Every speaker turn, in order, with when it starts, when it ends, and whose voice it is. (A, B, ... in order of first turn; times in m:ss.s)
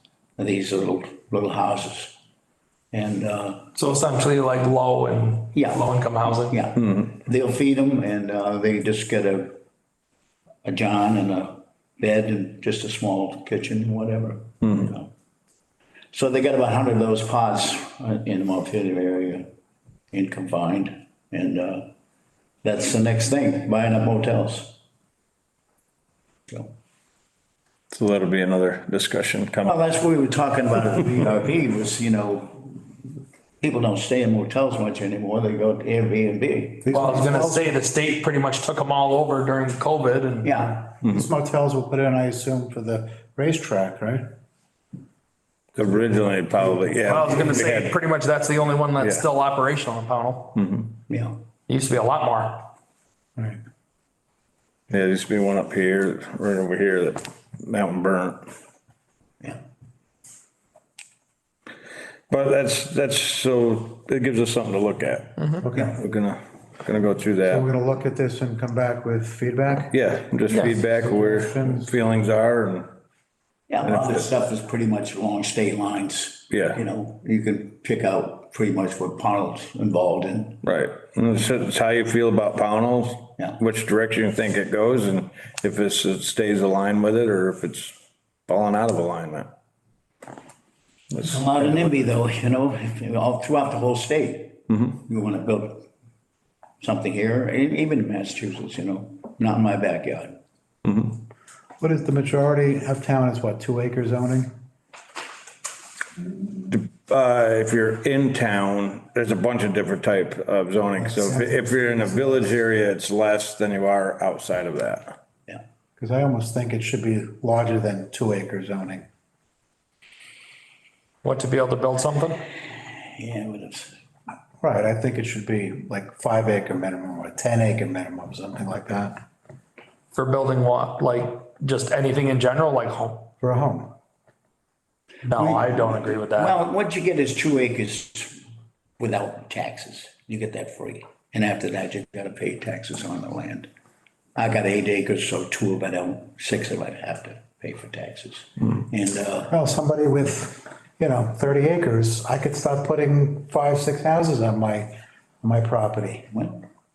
0:00.4-0:02.2 A
0:02.9-0:03.7 A
0:03.7-0:06.6 B
0:05.5-0:09.6 A
0:06.8-0:07.0 C
0:10.6-0:15.1 A
0:14.6-0:14.9 C
0:16.1-0:19.5 A
0:20.1-0:21.9 A
0:22.6-0:24.8 A
0:27.9-0:29.7 C
0:29.6-0:32.9 A
0:33.6-0:37.0 A
0:36.8-0:37.8 D
0:36.9-0:40.5 B
0:40.4-0:40.9 A
0:40.8-0:44.3 D
0:45.8-0:48.0 C
0:47.1-0:50.5 B
0:49.0-0:49.2 C
0:50.5-0:50.9 C
0:51.1-0:51.4 A
0:51.7-0:52.7 B
0:54.9-0:58.4 C
1:02.3-1:05.4 C
1:05.4-1:05.6 B
1:05.6-1:06.0 D
1:05.9-1:07.7 C
1:07.4-1:09.9 D
1:09.9-1:12.9 C
1:10.7-1:11.9 D
1:13.7-1:20.6 A
1:13.8-1:14.2 C
1:16.5-1:16.8 C
1:20.6-1:27.9 C
1:28.5-1:29.5 C
1:31.1-1:31.9 C
1:31.3-1:35.9 A
1:36.8-1:40.4 A
1:40.8-1:41.2 C
1:41.8-1:44.5 D
1:46.7-1:55.2 C
1:51.1-1:52.5 D
1:56.0-1:59.1 D
2:01.2-2:02.4 B
2:03.0-2:03.9 A
2:04.6-2:09.2 D
2:10.1-2:13.3 B
2:13.4-2:13.9 D
2:15.2-2:16.5 B
2:15.4-2:18.4 A
2:19.0-2:23.7 A
2:24.4-2:29.5 A
2:29.5-2:36.3 D
2:36.3-2:36.6 A